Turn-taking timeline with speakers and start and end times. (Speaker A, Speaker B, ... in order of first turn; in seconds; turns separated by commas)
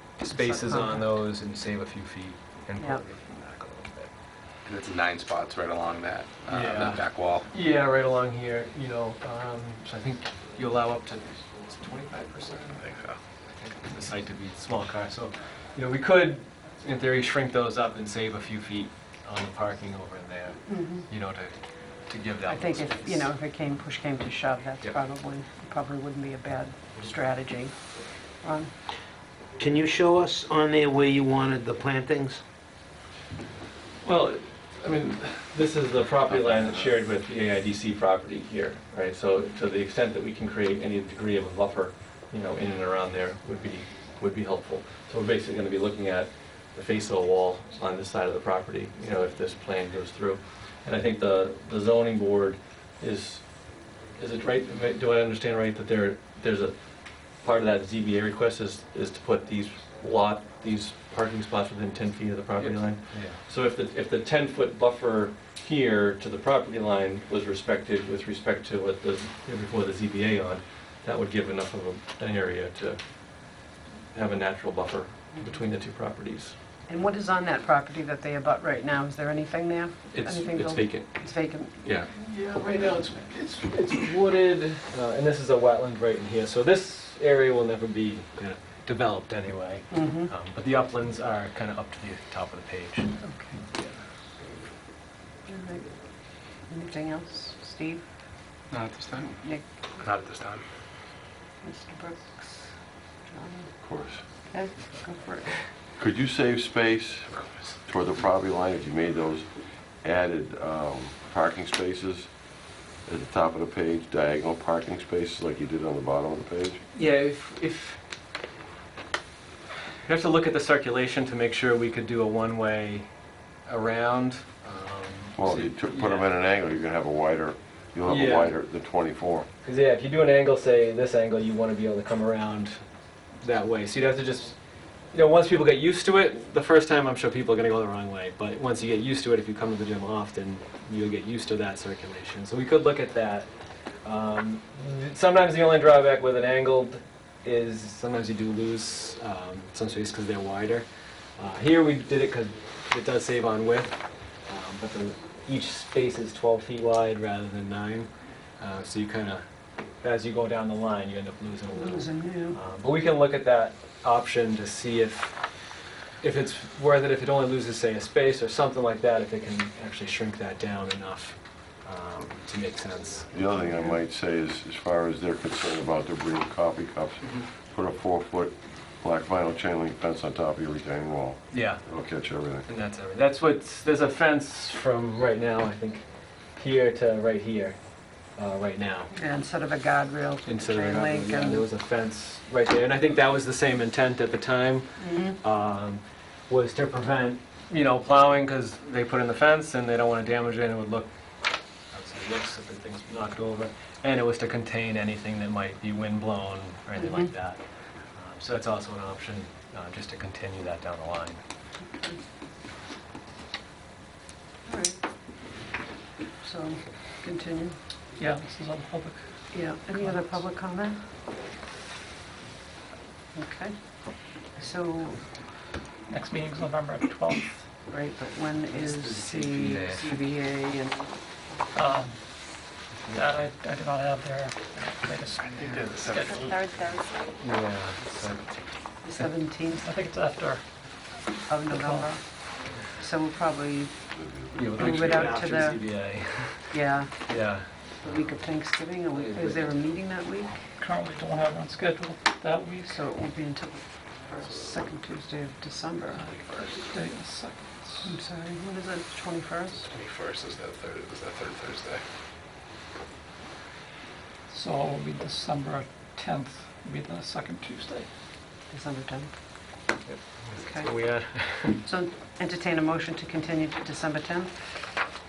Speaker A: 0.2-4.1, Speaker B: 0.3-1.1, Speaker C: 4.6-7.5, Speaker A: 6.5-12.8, Speaker C: 12.8-13.2, Speaker A: 13.4-23.3, Speaker B: 20.6-21.0, Speaker B: 22.5-27.7, Speaker B: 28.4-28.7, Speaker D: 29.7-32.4, Speaker E: 34.0-56.8, Speaker E: 57.3-73.0, Speaker A: 62.6-63.4, Speaker E: 74.1-76.5, Speaker B: 76.9-81.8, Speaker E: 80.1-81.1, Speaker E: 81.8-82.1, Speaker A: 82.1-93.2, Speaker B: 89.9-90.3, Speaker B: 93.2-93.6, Speaker B: 95.5-95.8, Speaker B: 96.6-98.0, Speaker C: 98.7-99.3, Speaker C: 100.0-100.6, Speaker B: 101.6-103.7, Speaker F: 103.8-104.2, Speaker B: 104.5-105.6, Speaker F: 106.0-107.3, Speaker C: 107.3-107.7, Speaker F: 107.8-112.3, Speaker F: 113.0-116.8, Speaker A: 116.9-118.0, Speaker A: 120.0-123.1, Speaker A: 123.7-126.3, Speaker F: 125.4-129.5, Speaker A: 128.0-128.6, Speaker A: 129.6-132.8, Speaker A: 133.4-134.6, Speaker A: 135.1-143.5, Speaker A: 144.0-150.9, Speaker A: 151.4-153.9, Speaker A: 154.5-159.4, Speaker A: 160.0-165.3, Speaker B: 161.7-162.6, Speaker A: 166.2-173.9, Speaker F: 173.3-182.7, Speaker A: 181.5-181.8, Speaker A: 182.7-186.0, Speaker A: 186.6-187.8, Speaker A: 188.3-189.1, Speaker B: 189.1-191.7, Speaker A: 190.4-201.1, Speaker B: 195.0-195.4, Speaker A: 201.9-207.6, Speaker B: 206.9-207.3, Speaker A: 208.2-211.4, Speaker B: 211.8-212.2, Speaker B: 214.7-215.0, Speaker B: 216.4-217.8, Speaker G: 218.2-220.4, Speaker B: 219.5-221.0, Speaker B: 223.3-225.3, Speaker G: 226.1-227.7, Speaker B: 227.9-231.1, Speaker A: 228.7-230.1, Speaker G: 231.7-232.6, Speaker A: 232.9-233.3, Speaker G: 233.1-236.5, Speaker C: 235.7-236.1, Speaker B: 236.1-237.4, Speaker A: 237.4-238.5, Speaker B: 239.0-239.8, Speaker G: 239.7-241.1, Speaker B: 241.5-243.9, Speaker G: 241.7-242.1, Speaker F: 244.1-245.0, Speaker A: 244.6-247.7, Speaker B: 244.8-245.8, Speaker B: 246.7-247.3, Speaker B: 248.0-250.7, Speaker G: 250.8-253.1, Speaker B: 252.8-256.2, Speaker G: 256.1-258.1, Speaker C: 256.2-256.9, Speaker B: 258.0-259.9, Speaker C: 259.9-262.0, Speaker G: 264.5-268.1, Speaker B: 268.7-269.3, Speaker A: 270.0-271.8, Speaker B: 270.6-270.9, Speaker B: 271.8-274.5